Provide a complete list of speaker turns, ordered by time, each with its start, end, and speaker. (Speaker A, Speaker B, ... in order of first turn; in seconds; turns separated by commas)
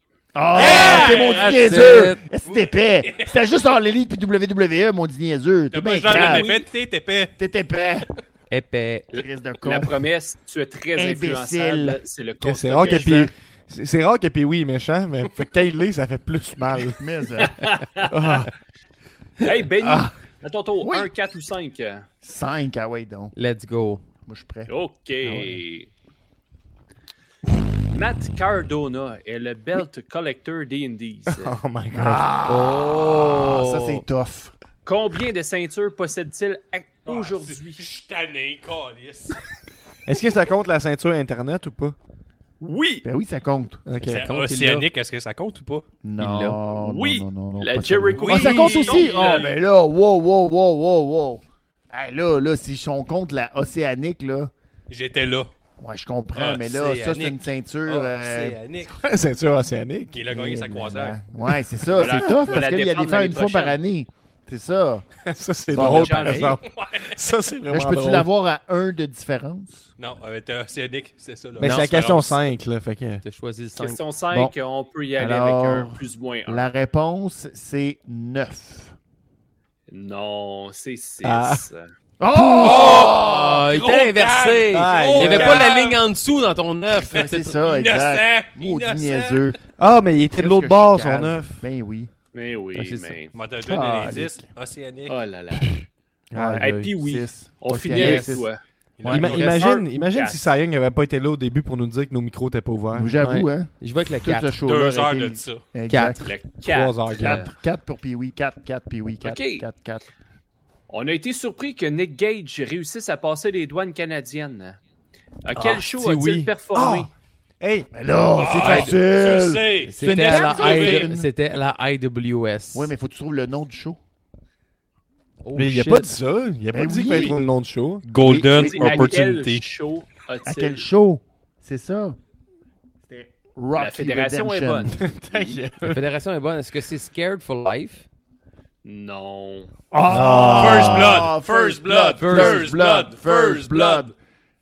Speaker A: 0.3-6.6, Speaker B: 0.5-3.4, Speaker C: 1.1-2.2, Speaker B: 5.7-7.3, Speaker D: 6.1-6.6, Speaker A: 7.4-8.1, Speaker C: 8.5-9.1, Speaker A: 9.1-10.0, Speaker D: 9.6-13.3, Speaker A: 10.9-12.0, Speaker E: 12.4-17.0, Speaker A: 12.8-13.3, Speaker A: 17.0-17.6, Speaker D: 17.4-18.4, Speaker E: 18.1-18.5, Speaker D: 19.4-22.1, Speaker A: 19.8-20.1, Speaker A: 20.8-21.1, Speaker A: 22.2-23.3, Speaker C: 23.4-24.0, Speaker A: 24.3-24.7, Speaker D: 24.7-25.9, Speaker D: 27.9-31.6, Speaker E: 31.3-32.3, Speaker A: 31.9-34.5, Speaker C: 32.5-34.0, Speaker D: 34.9-37.9, Speaker B: 37.1-39.4, Speaker E: 40.1-42.0, Speaker B: 42.6-43.0, Speaker A: 43.0-43.8, Speaker E: 43.9-44.3, Speaker B: 44.0-45.9, Speaker C: 44.1-44.9, Speaker A: 46.0-54.5, Speaker C: 46.2-46.5, Speaker D: 46.4-49.5, Speaker B: 48.1-49.5, Speaker B: 54.9-55.5, Speaker A: 55.8-58.6, Speaker B: 56.4-59.0, Speaker E: 58.9-60.2, Speaker B: 60.1-61.2, Speaker A: 60.3-65.1, Speaker D: 61.9-63.8, Speaker E: 62.0-62.5, Speaker E: 65.2-68.3, Speaker A: 65.7-66.6, Speaker D: 65.7-66.6, Speaker B: 66.4-67.2, Speaker A: 67.7-69.9, Speaker B: 70.0-72.4, Speaker E: 71.6-73.2, Speaker C: 71.6-72.0, Speaker C: 73.2-74.0, Speaker D: 73.8-76.7, Speaker A: 75.2-78.9, Speaker D: 79.9-81.9, Speaker E: 81.2-81.7, Speaker A: 82.2-83.7, Speaker B: 82.5-86.0, Speaker C: 82.6-87.6, Speaker E: 84.7-85.7, Speaker A: 86.9-89.6, Speaker B: 87.6-89.5, Speaker E: 89.8-91.7, Speaker A: 90.3-92.1, Speaker D: 92.3-93.4, Speaker C: 92.8-93.2, Speaker B: 93.3-95.2, Speaker A: 93.6-94.5, Speaker D: 95.1-95.8, Speaker E: 96.3-96.8, Speaker A: 96.3-98.5, Speaker D: 96.6-98.6, Speaker E: 97.9-98.3, Speaker B: 99.0-99.7, Speaker A: 99.0-99.5, Speaker E: 99.1-103.4, Speaker D: 99.2-100.4, Speaker A: 102.9-106.3, Speaker C: 103.2-104.5, Speaker B: 104.7-105.6, Speaker C: 105.9-106.3, Speaker D: 106.2-107.5, Speaker E: 106.7-107.4, Speaker A: 107.2-110.1, Speaker D: 109.2-109.7, Speaker D: 110.9-114.8, Speaker D: 115.5-117.1, Speaker E: 115.5-117.9, Speaker A: 117.9-121.3, Speaker B: 118.3-121.1, Speaker C: 120.0-122.9, Speaker A: 122.7-124.0, Speaker C: 125.4-126.2, Speaker E: 125.5-128.1, Speaker A: 126.7-127.4, Speaker B: 128.1-129.7, Speaker A: 128.2-129.2, Speaker D: 128.5-130.9, Speaker A: 130.5-132.2, Speaker A: 133.1-135.0, Speaker D: 133.8-135.6, Speaker E: 134.9-136.0, Speaker C: 135.8-138.0, Speaker D: 138.8-139.7, Speaker A: 139.9-144.1, Speaker E: 140.1-141.3, Speaker B: 140.5-144.1, Speaker C: 142.2-142.7